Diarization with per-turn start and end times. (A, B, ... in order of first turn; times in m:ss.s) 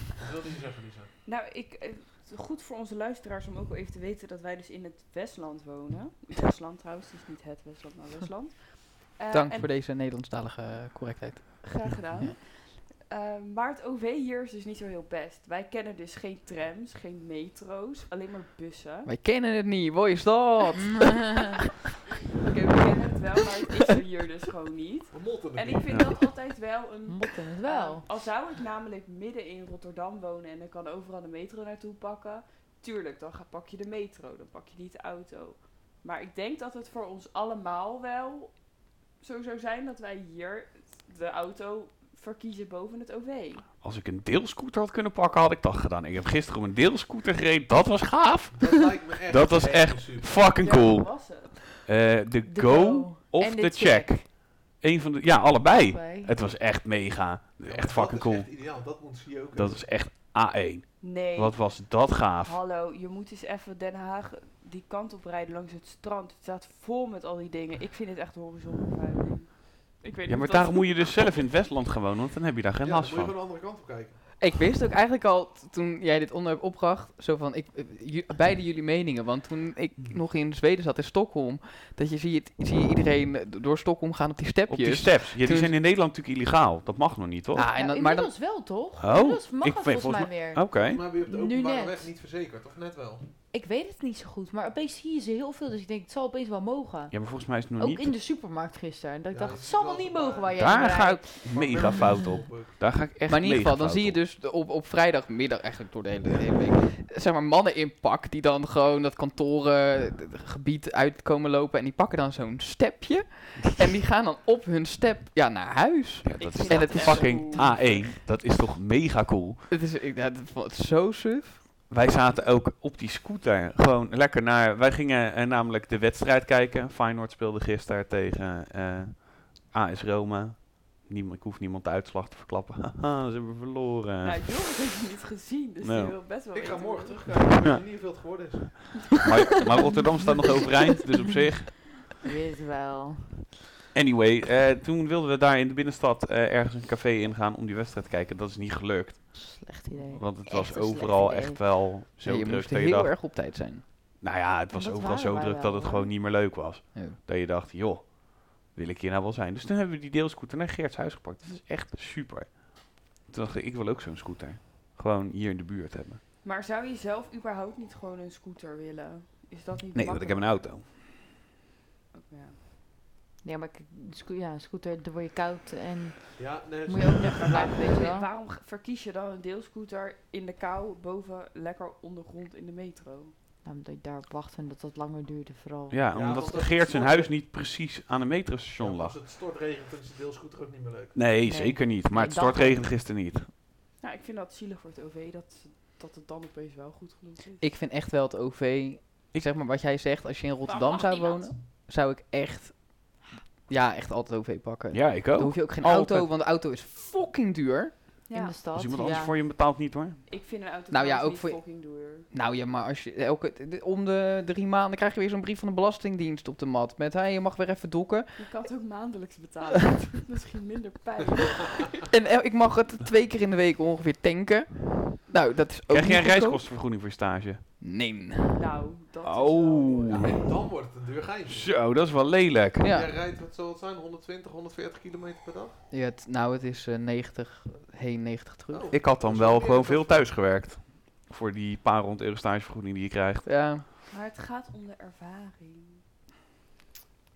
0:00.2-0:01.1 A
0:01.3-0:09.7 B
0:09.3-0:12.3 C
0:11.6-0:19.1 B
0:19.1-0:21.5 C
0:22.4-0:38.6 B
0:25.1-0:26.3 A
0:27.1-0:28.0 D
0:39.2-0:43.7 B
0:43.8-0:58.9 E
0:48.5-0:50.6 A
0:50.5-0:51.6 B
0:52.5-0:54.2 D
0:55.9-0:56.3 D
0:57.6-1:00.0 A
0:59.5-1:02.6 E
1:01.0-1:11.4 B
1:10.3-1:13.4 E
1:12.8-1:14.2 A
1:14.4-1:25.7 C
1:24.7-1:27.7 E
1:27.6-1:28.3 C
1:27.7-1:32.1 D
1:29.0-1:31.0 E
1:30.8-1:33.3 A
1:33.5-1:42.2 D
1:37.1-1:38.1 E
1:39.3-1:42.8 A
1:40.6-1:44.2 E
1:43.2-1:57.8 C
1:56.2-1:59.6 E
1:56.4-1:58.1 B
1:59.7-2:01.6 C
2:01.9-2:14.5 E
2:14.2-2:17.3 B
2:15.8-2:16.2 E
2:16.5-2:19.2 A
2:19.2-2:22.0 E
2:22.2-2:23.5 D
2:23.9-2:33.2 E
2:29.3-2:31.7 D
2:32.2-2:33.8 C
2:34.2-2:46.2 E
2:34.7-2:36.1 D
2:46.4-2:50.6 B
2:49.9-2:50.8 E
2:52.1-2:52.6 B
2:53.4-2:58.3 D
2:56.4-2:58.1 A
2:57.4-3:03.3 B
3:03.6-3:06.1 D
3:05.9-3:09.2 E
3:06.1-3:07.3 A
3:08.8-3:11.3 A
3:11.2-3:13.5 E
3:11.4-3:12.8 D
3:14.0-3:17.6 B
3:17.6-3:28.1 C
3:20.6-3:21.6 B
3:24.9-3:26.3 E
3:28.3-3:28.6 B
3:28.3-3:29.4 D
3:28.7-3:30.2 E
3:30.3-3:32.3 B
3:30.9-3:38.6 C
3:38.4-3:42.0 B
3:41.4-3:41.8 A
3:42.1-3:46.6 C
3:45.9-3:47.6 E
3:47.8-3:48.6 C
3:48.6-3:50.4 B
3:49.2-3:50.4 E
3:50.1-3:51.8 A
3:51.5-3:52.8 E
3:52.8-3:53.1 C
3:52.8-3:55.8 A
3:55.9-3:58.9 C
3:58.7-4:00.4 A
3:58.9-4:03.5 E
4:03.5-4:03.8 C
4:04.1-4:06.0 B